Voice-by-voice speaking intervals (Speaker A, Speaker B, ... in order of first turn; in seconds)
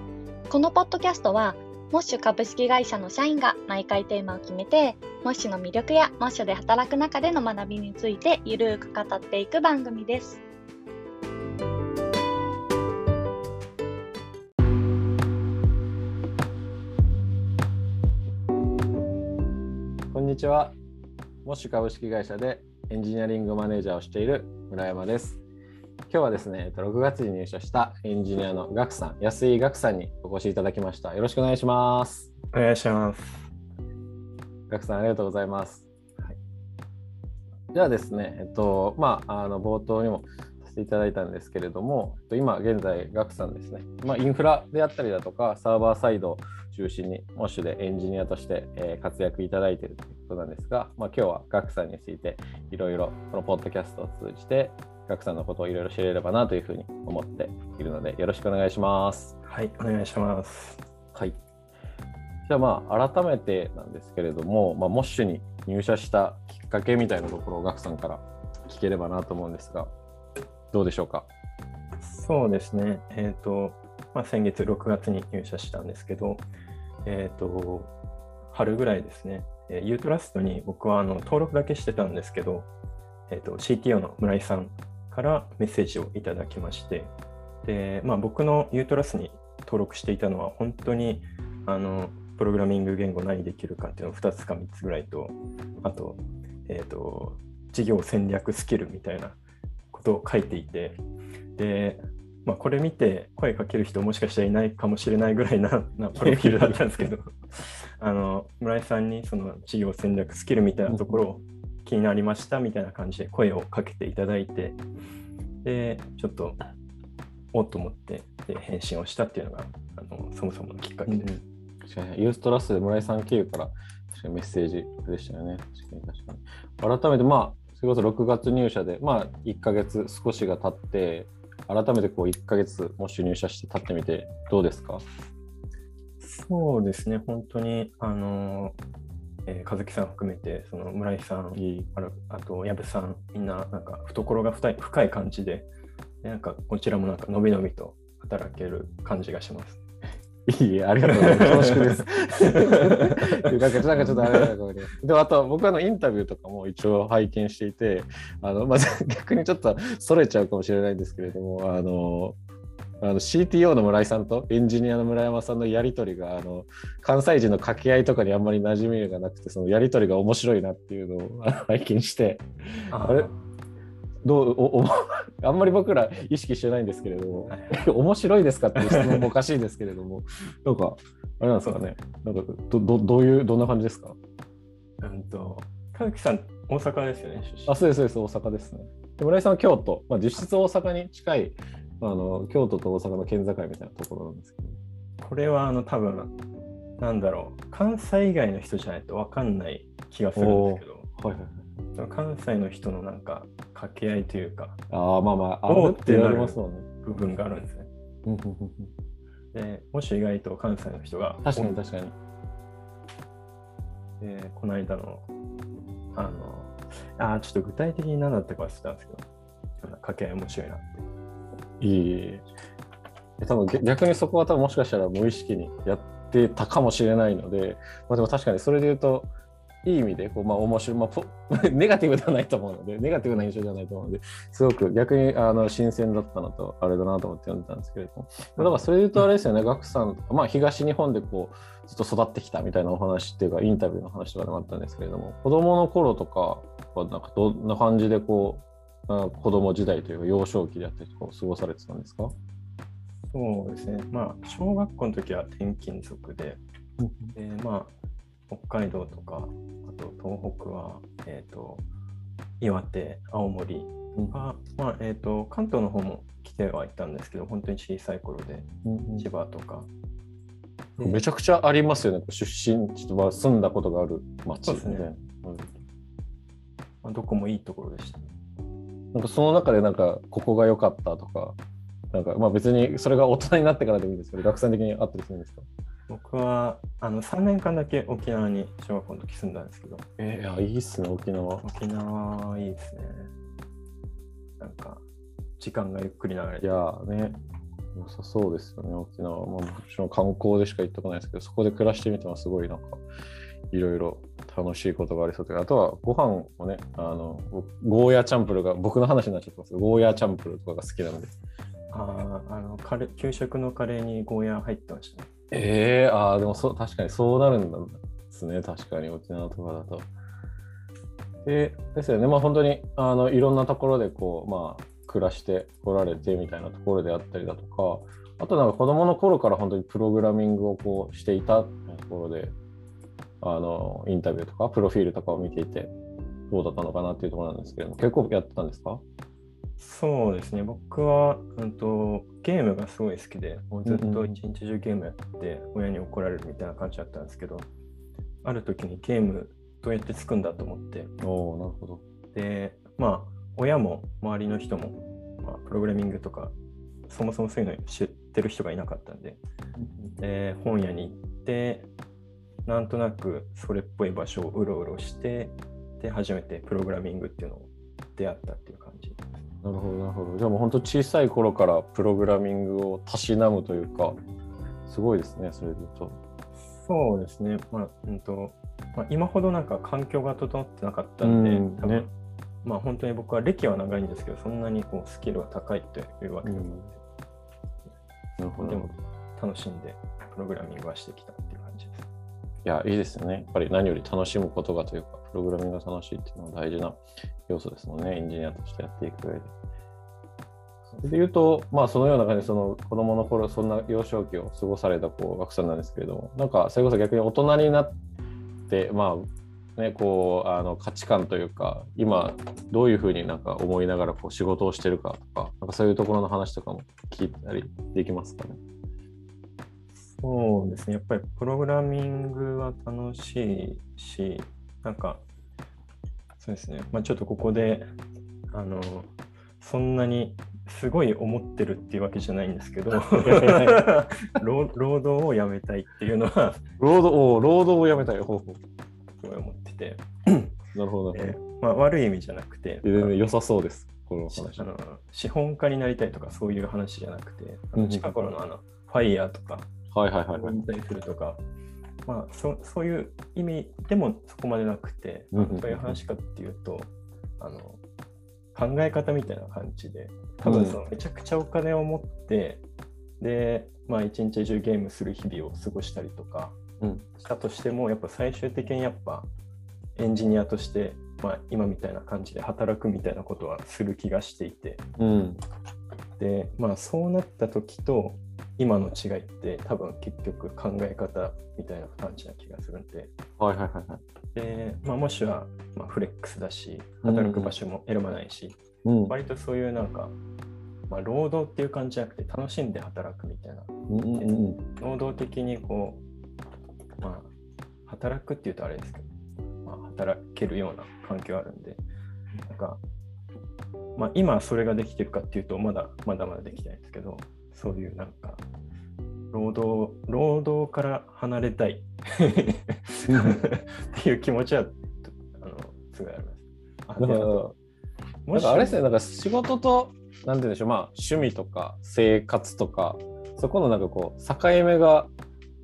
Speaker A: 0.5-10.4
Speaker B: 20.1-20.7, 21.4-25.4, 26.1-32.3, 34.7-35.9, 37.7-59.3, 62.5-69.9, 70.7-71.3, 106.2-106.8, 110.9-111.2, 121.1-135.0, 141.6-141.9, 150.5-162.4, 163.0-173.3, 174.2-184.2, 187.7-194.8, 200.3-201.6, 204.9-206.9, 208.2-208.9, 211.4-212.1, 221.8-222.4, 223.4-229.3, 229.8-252.3, 257.0-257.3, 268.8-269.3, 271.0-275.8, 279.1-281.6, 282.1-285.6, 290.2-291.6, 296.6-297.4, 297.9-303.0, 303.7-311.3, 315.5-320.1, 321.4-332.5, 333.4-335.9, 336.5-339.0, 343.7-344.4, 351.2-352.0, 359.8-360.1, 369.6-374.2, 374.9-376.2, 381.2-382.1, 386.4-386.9, 388.4-388.9, 392.6-399.5, 400.9-407.9, 408.7-418.6, 433.2-434.0, 436.8-438.6, 440.7-441.4, 442.8-444.7, 447.8-448.1, 449.9-450.6, 455.3-456.0, 460.4-460.8, 466.8-467.0, 475.0-475.4, 483.4-484.0, 487.0-487.6, 488.8-489.1, 493.9-494.6, 513.1-513.4, 517.0-517.5, 518.3-525.1
Speaker C: 32.5-33.5, 59.4-60.8, 72.0-76.4, 77.0-77.9, 78.5-82.7, 83.3-99.4, 99.9-101.0, 101.5-114.8, 115.6-116.6, 117.5-121.4, 136.2-138.8, 139.4-145.7, 146.2-149.8, 151.0-154.4, 172.9-173.5, 177.5-177.8, 178.8-179.3, 185.0-187.8, 195.2-196.3, 197.0-201.1, 201.9-204.8, 205.7-207.9, 209.5-211.8, 214.2-215.3, 216.1-219.2, 219.8-221.1, 253.3-256.6, 257.3-257.9, 258.5-261.8, 262.6-269.9, 270.9-271.2, 274.6-275.1, 277.0-278.3, 286.1-290.1, 291.6-293.3, 294.6-295.0, 295.6-296.8, 311.9-315.3, 339.8-347.7, 348.4-351.1, 352.3-356.5, 357.1-359.4, 360.2-361.9, 362.6-369.4, 376.6-382.1, 382.6-387.0, 388.6-392.1, 420.1-425.2, 426.4-427.9, 428.5-436.6, 439.2-440.6, 441.1-443.2, 444.3-449.7, 450.3-451.4, 452.1-457.8, 458.5-462.6, 463.2-466.6, 467.1-469.3, 469.9-474.8, 476.2-483.1, 484.3-490.1, 490.9-496.0, 497.0-497.3, 497.9-499.1, 499.6-501.8, 502.4-502.8, 503.9-508.4, 509.3-517.5, 518.2-518.8